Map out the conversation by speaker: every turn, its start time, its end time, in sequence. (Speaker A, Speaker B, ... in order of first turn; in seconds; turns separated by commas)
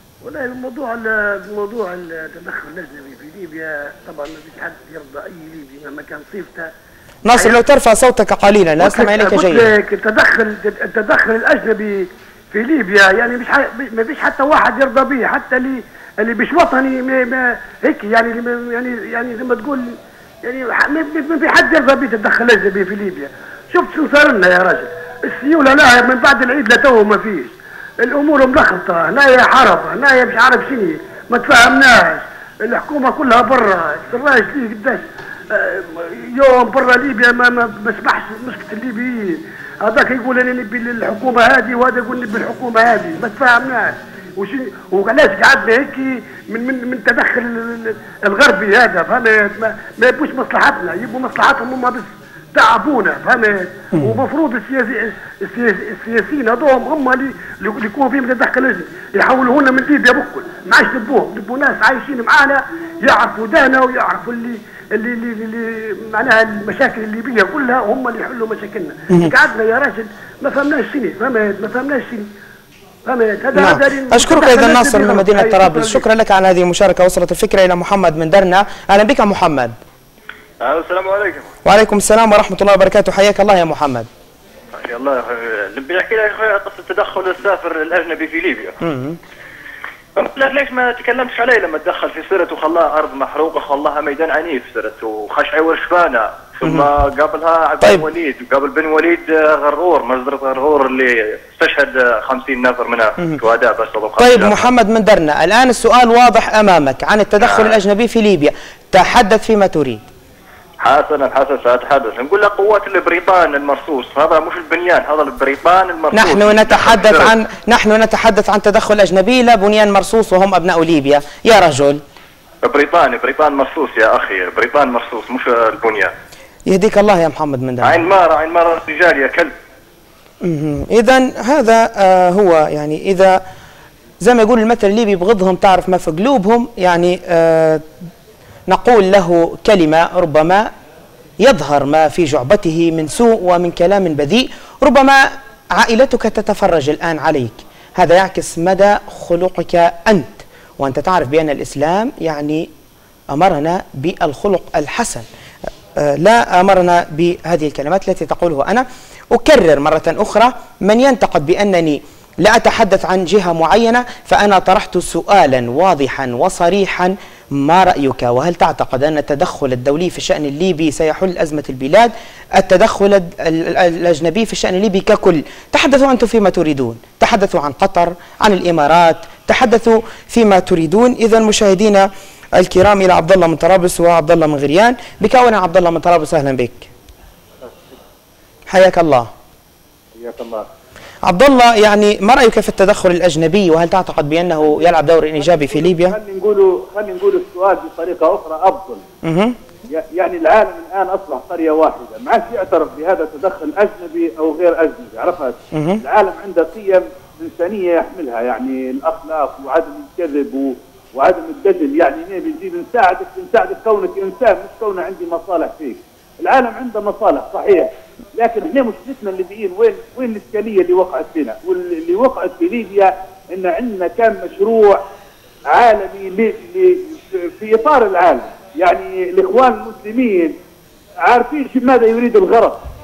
Speaker A: 0.2-6.7, Speaker B: 7.2-9.7, Speaker A: 8.8-72.3, Speaker A: 73.0-76.0, Speaker B: 73.5-79.7, Speaker C: 80.6-81.4, Speaker B: 81.6-84.1, Speaker C: 84.7-88.8, Speaker B: 88.8-89.2, Speaker C: 90.2-104.7, Speaker B: 104.2-110.0, Speaker C: 107.5-107.7, Speaker C: 110.8-117.3, Speaker B: 116.1-122.0, Speaker C: 122.6-126.1, Speaker B: 126.7-128.1, Speaker C: 127.8-129.5, Speaker B: 130.4-133.4, Speaker B: 134.2-137.8, Speaker B: 138.7-140.7, Speaker B: 141.4-152.7, Speaker B: 153.3-155.2, Speaker B: 156.0-186.9, Speaker D: 187.6-188.0, Speaker B: 188.7-189.3, Speaker D: 190.2-190.7, Speaker B: 191.2-196.2, Speaker D: 194.6-199.0, Speaker B: 199.2-199.6, Speaker D: 199.9-225.0, Speaker B: 205.7-206.0, Speaker D: 225.7-230.6, Speaker D: 231.2-232.8